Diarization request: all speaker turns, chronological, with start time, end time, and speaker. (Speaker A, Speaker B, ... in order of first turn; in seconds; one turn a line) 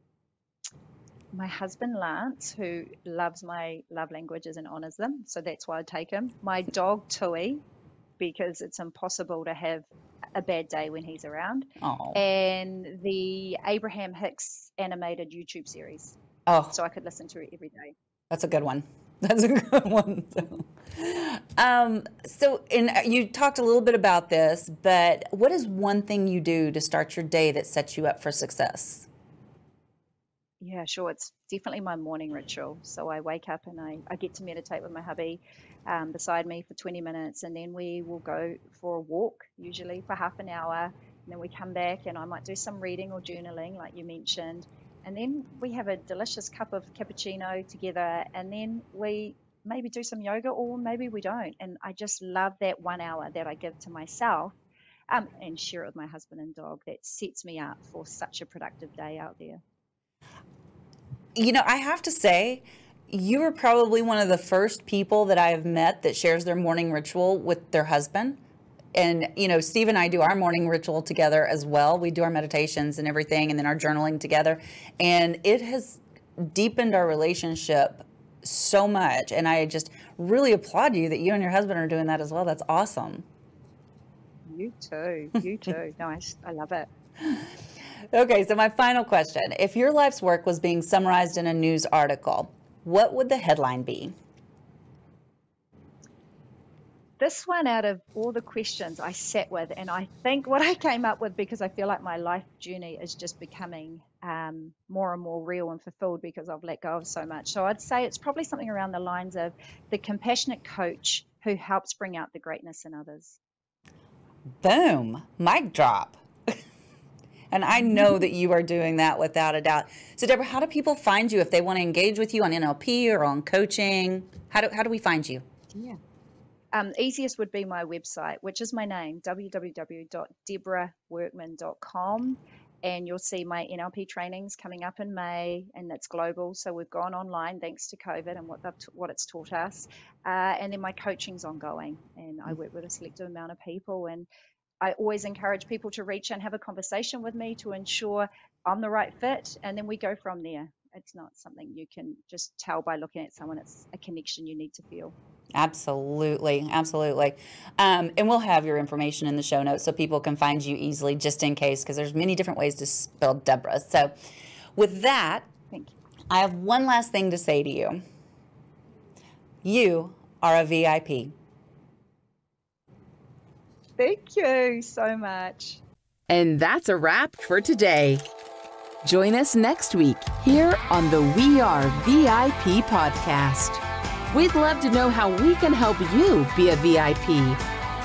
Speaker A: 1.3-7.6
Speaker A: 8.2-16.2
Speaker B: 11.8-12.2
Speaker B: 16.5-16.7
Speaker A: 16.7-17.9
Speaker B: 18.3-29.1
Speaker A: 30.6-54.5
Speaker A: 55.1-59.6
Speaker B: 61.4-68.4
Speaker B: 68.9-83.2
Speaker A: 84.4-86.9
Speaker B: 88.1-94.1
Speaker A: 97.2-113.4
Speaker B: 114.6-116.5
Speaker B: 117.5-125.4
Speaker A: 117.7-118.1
Speaker A: 125.7-126.0
Speaker A: 126.7-144.3
Speaker A: 144.8-155.1
Speaker B: 155.5-164.1
Speaker B: 164.8-165.5
Speaker B: 166.3-168.0
Speaker B: 169.6-171.3
Speaker A: 174.0-175.8
Speaker C: 176.3-178.2
Speaker C: 179.0-187.6